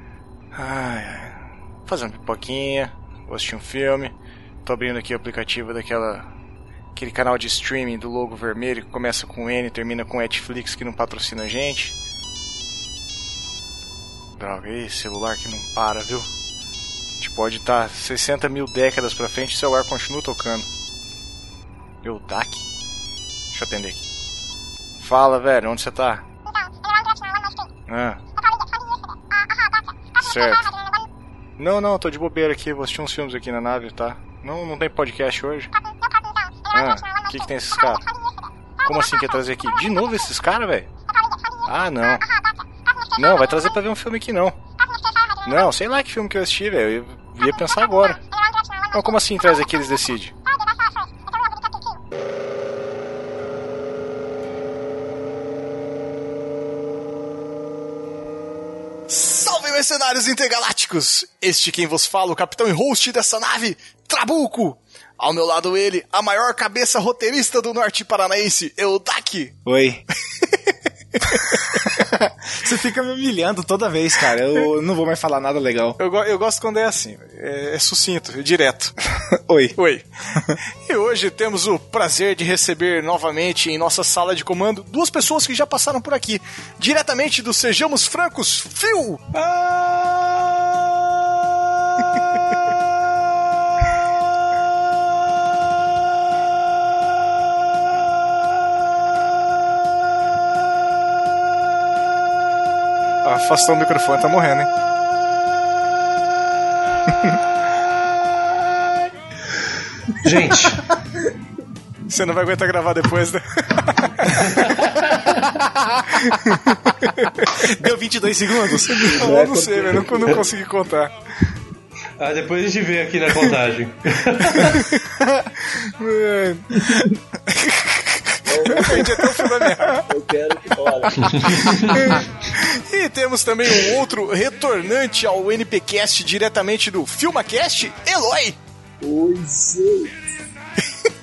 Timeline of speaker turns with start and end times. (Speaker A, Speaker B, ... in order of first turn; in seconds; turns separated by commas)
Speaker A: 0.5-4.1, Speaker A: 4.6-6.3, Speaker A: 6.9-11.9, Speaker A: 14.4-16.3, Speaker A: 17.2-20.7, Speaker A: 22.0-22.7, Speaker A: 23.5-24.0, Speaker A: 25.0-26.2, Speaker A: 27.9-28.2, Speaker A: 30.2-30.7, Speaker A: 31.6-35.7, Speaker A: 36.7-38.0, Speaker A: 38.8-40.9, Speaker A: 41.6-42.2, Speaker A: 43.1-44.6, Speaker A: 45.4-48.2, Speaker A: 48.9-50.4, Speaker A: 59.1-69.6, Speaker B: 69.7-70.0, Speaker A: 70.4-72.0, Speaker B: 71.7-76.0, Speaker A: 76.0-78.9, Speaker B: 79.3-79.8, Speaker A: 79.8-80.1, Speaker A: 80.8-89.2, Speaker A: 103.2-104.7, Speaker C: 110.1-110.9, Speaker A: 112.1-114.9, Speaker C: 114.3-115.4, Speaker A: 116.2-117.6, Speaker B: 117.6-119.2, Speaker D: 118.9-120.4, Speaker A: 119.1-121.1, Speaker C: 122.2-124.8, Speaker A: 124.5-130.0, Speaker D: 126.7-127.2, Speaker D: 128.4-129.2, Speaker D: 129.9-131.9, Speaker C: 131.2-132.1, Speaker A: 131.9-138.6, Speaker D: 139.0-140.1